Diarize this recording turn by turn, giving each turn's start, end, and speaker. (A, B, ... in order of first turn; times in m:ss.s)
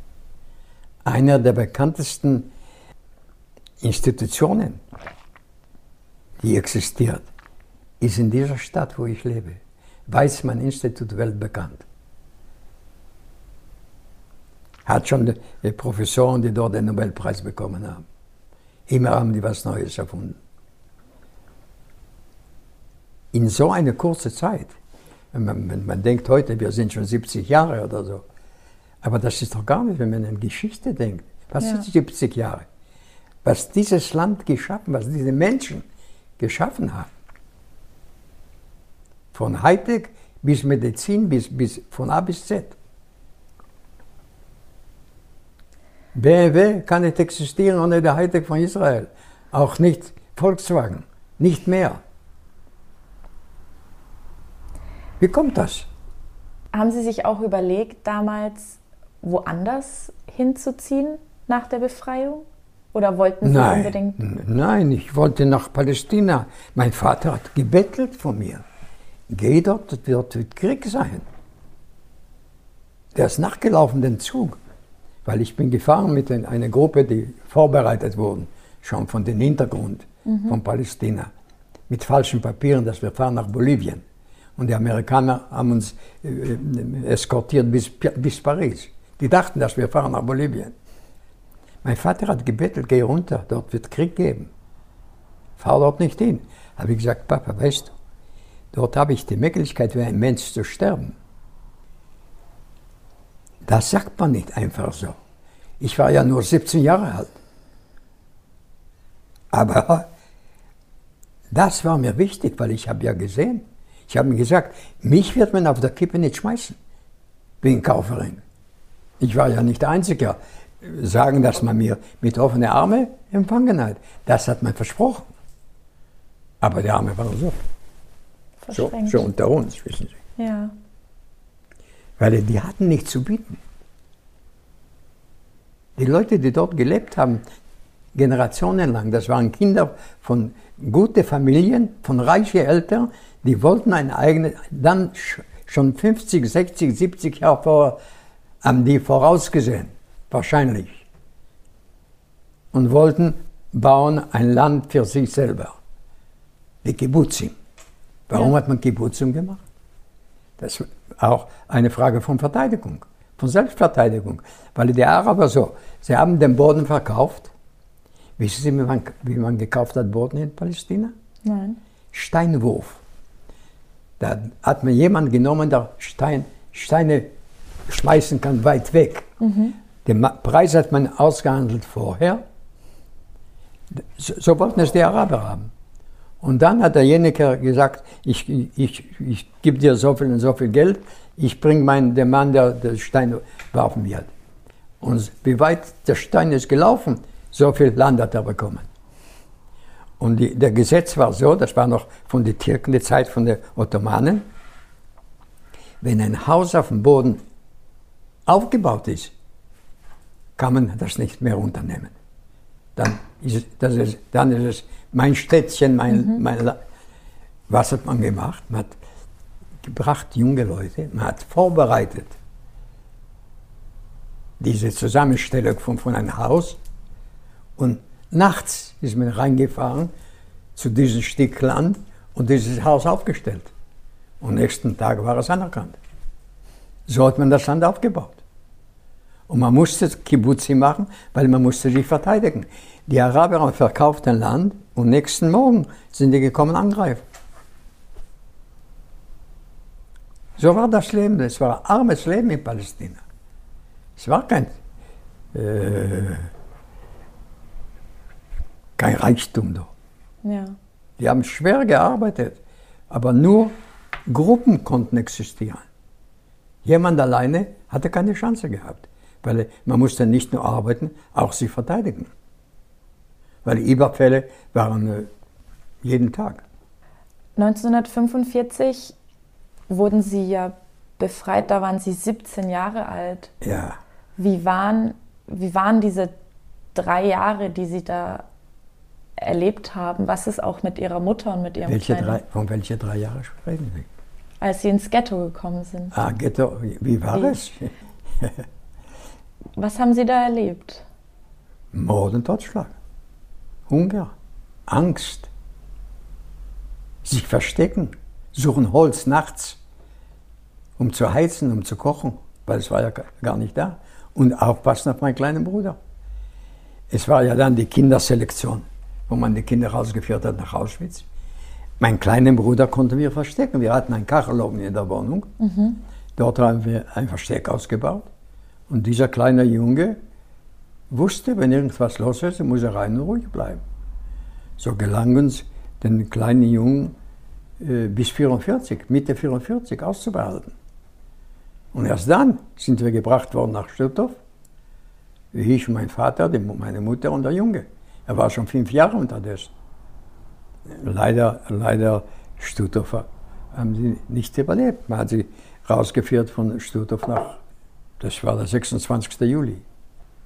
0:01.0-0:02.5 A
0:03.8-0:04.8 A
0:06.4-0:07.3 A
0:08.0-0:11.8 A
0:14.9-0:18.0 A
0:18.9-0:20.4 A
0:23.3-0:24.7 A
0:25.3-0:28.2 A
0:29.0-0:32.7 A
0:31.6-0:31.9 B
0:33.4-0:35.8 A
0:36.4-0:37.1 A
0:39.3-0:42.8 A
0:46.1-0:52.0 A
0:55.2-0:55.9 A
0:56.7-1:04.2 B
1:03.4-1:08.6 A
1:09.3-1:11.3 A
1:13.1-1:14.6 A
1:15.3-1:21.3 A
1:20.3-1:20.6 B
1:21.9-1:24.0 A
1:24.6-1:30.7 A
1:31.8-1:34.5 A
1:35.6-1:37.9 A
1:38.7-1:41.2 A
1:43.7-1:45.2 A
1:45.8-1:47.4 A
1:49.5-1:50.1 A
1:51.5-1:56.8 A
1:57.6-1:58.4 A
1:59.2-2:05.3 A
2:06.6-2:07.6 A
2:08.6-2:09.3 B
2:08.7-2:10.2 A
2:10.4-2:10.8 B
2:12.2-2:13.6 A
2:16.0-2:17.4 A
2:18.2-2:28.0 A
2:28.6-2:31.1 A
2:32.7-2:35.8 A
2:36.8-2:37.6 A
2:38.3-2:39.6 A
2:40.6-2:47.5 A
2:48.4-2:51.1 A
2:51.4-2:51.8 B
2:52.1-2:53.0 A
2:54.2-2:57.3 A
2:57.9-2:59.3 A
2:59.4-2:59.8 B
3:00.0-3:02.4 A
3:03.9-3:05.7 A
3:06.4-3:14.3 A
3:15.0-3:18.9 A
3:20.2-3:24.5 A
3:26.0-3:27.4 A
3:28.5-3:29.3 A
3:30.6-3:32.1 A
3:33.0-3:36.8 A
3:36.1-3:36.4 B
3:37.7-3:39.0 A
3:39.8-3:42.4 A
3:44.6-3:46.8 A
3:47.8-3:50.1 A
3:50.8-3:53.7 A
3:54.4-3:56.0 A
3:57.1-3:58.4 A
3:59.5-4:07.2 A
4:10.6-4:13.2 A
4:14.2-4:14.7 A
4:15.5-4:16.5 A
4:19.0-4:19.9 A
4:20.4-4:20.8 B
4:21.2-4:22.6 A
4:23.1-4:23.7 A
4:24.3-4:25.8 A
4:26.8-4:32.3 A
4:33.6-4:35.3 A
4:36.0-4:36.6 A
4:37.6-4:39.2 B
4:39.9-4:43.5 B
4:43.6-4:44.0 A
4:44.4-4:46.3 B
4:47.0-4:48.5 B
4:49.4-4:52.4 B
4:51.9-4:54.1 A
4:54.6-4:56.2 B
4:56.1-4:58.6 A
4:59.8-5:01.0 B
5:01.9-5:02.9 A
5:03.9-5:04.3 A
5:04.9-5:05.5 A
5:07.2-5:09.8 A
5:11.0-5:16.0 A
5:17.1-5:21.3 A
5:22.0-5:25.5 A
5:25.6-5:26.0 B
5:26.4-5:28.3 A
5:28.9-5:30.2 A
5:31.1-5:33.8 A
5:34.8-5:37.2 A
5:37.8-5:40.7 A
5:41.9-5:44.4 A
5:45.5-5:49.7 A
5:50.9-5:57.6 A
5:58.2-5:59.8 A